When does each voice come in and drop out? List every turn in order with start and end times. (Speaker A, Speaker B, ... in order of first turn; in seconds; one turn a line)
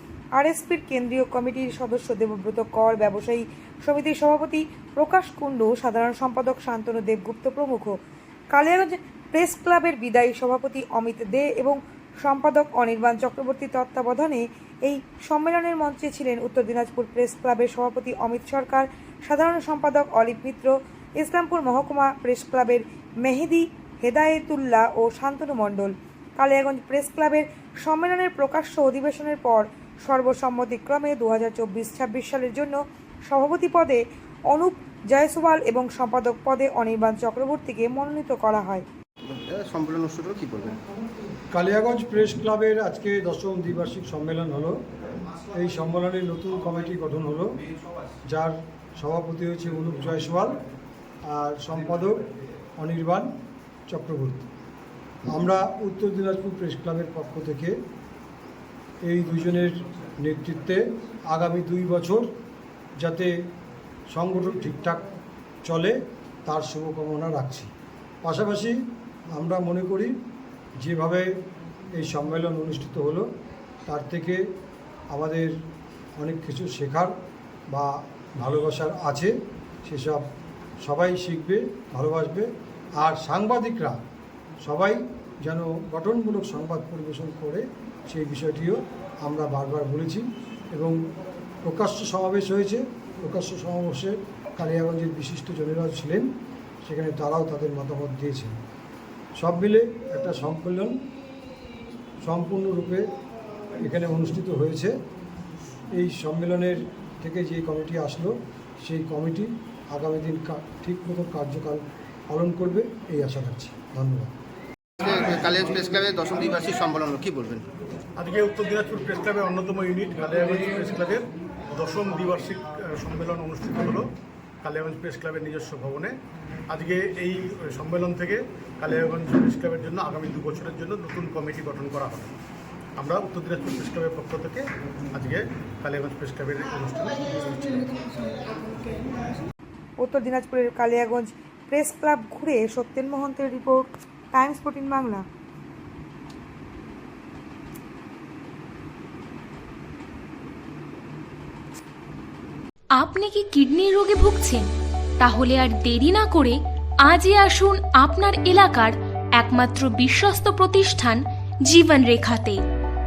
Speaker A: 0.4-8.0
Speaker A: 8.5-38.8
Speaker B: 39.2-40.8
Speaker C: 41.5-44.8
Speaker C: 45.4-47.6
Speaker C: 48.3-50.6
Speaker C: 51.2-53.3
Speaker C: 53.9-54.5
Speaker C: 55.2-57.8
Speaker C: 59.0-62.3
Speaker C: 63.0-63.3
Speaker C: 64.1-65.0
Speaker C: 65.6-67.7
Speaker C: 68.2-68.8
Speaker C: 69.3-70.1
Speaker C: 70.8-71.3
Speaker C: 71.9-73.3
Speaker C: 73.8-74.4
Speaker C: 75.1-75.5
Speaker C: 76.2-77.1
Speaker C: 77.7-79.3
Speaker C: 79.8-80.2
Speaker C: 80.8-84.0
Speaker C: 84.6-91.0
Speaker C: 91.6-96.3
Speaker C: 96.8-98.6
Speaker C: 99.4-101.0
Speaker C: 102.2-103.1
Speaker C: 103.8-104.9
Speaker C: 105.9-114.3
Speaker B: 115.0-117.7
Speaker D: 118.2-124.1
Speaker D: 124.6-126.1
Speaker D: 126.7-132.3
Speaker D: 133.0-138.0
Speaker A: 140.0-145.2
Speaker E: 153.0-162.6